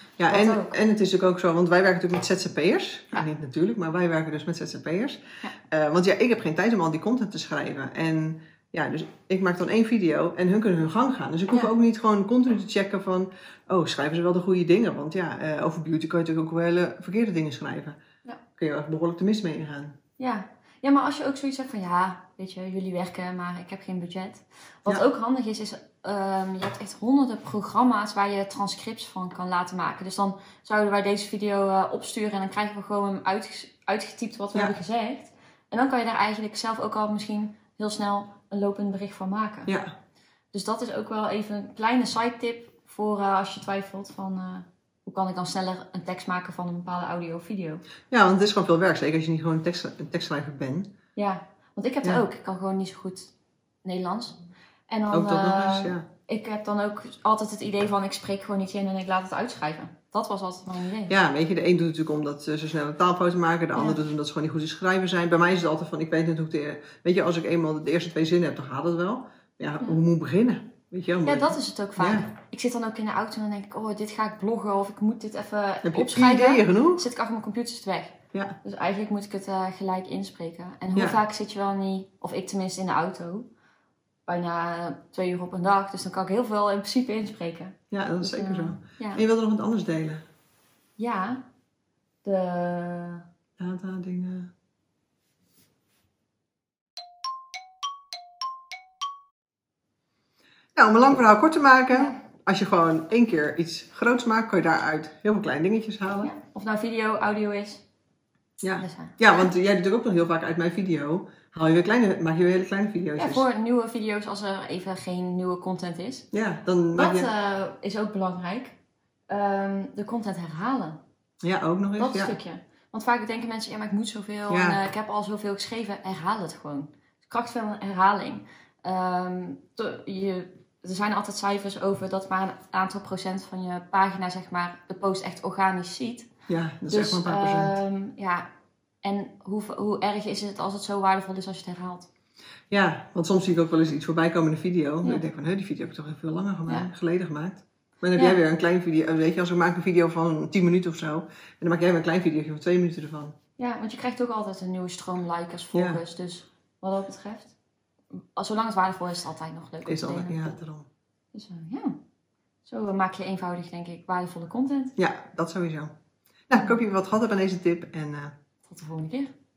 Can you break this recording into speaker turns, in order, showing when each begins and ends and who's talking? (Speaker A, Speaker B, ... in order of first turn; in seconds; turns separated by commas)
Speaker A: 0.2-18.0, Speaker B: 0.3-0.8, Speaker A: 18.6-19.9, Speaker B: 20.2-39.7, Speaker B: 40.5-47.8, Speaker A: 48.1-50.9, Speaker B: 51.1-53.3, Speaker B: 53.8-61.1, Speaker A: 55.1-56.0, Speaker A: 61.1-72.3, Speaker B: 71.2-83.5, Speaker A: 75.8-77.0, Speaker A: 80.9-81.2, Speaker B: 84.2-89.2, Speaker A: 87.9-90.2, Speaker B: 91.0-91.4, Speaker B: 92.2-93.2, Speaker A: 93.6-94.5, Speaker A: 100.8-106.3, Speaker B: 101.9-102.2, Speaker B: 106.2-107.8, Speaker A: 108.6-113.4, Speaker B: 108.8-109.5, Speaker B: 113.2-116.3, Speaker A: 116.3-117.3, Speaker B: 117.0-118.7, Speaker B: 119.3-121.0, Speaker A: 121.4-122.4, Speaker B: 122.0-136.3, Speaker A: 124.5-124.8, Speaker A: 136.5-137.8, Speaker B: 136.9-138.5, Speaker B: 139.0-142.1, Speaker A: 142.7-153.3, Speaker B: 148.1-148.4, Speaker B: 153.6-157.5, Speaker A: 155.7-156.0, Speaker B: 158.3-160.6, Speaker A: 159.8-160.9, Speaker B: 161.3-162.0, Speaker B: 162.6-164.9, Speaker A: 165.0-165.9, Speaker A: 166.5-168.3, Speaker B: 168.7-169.3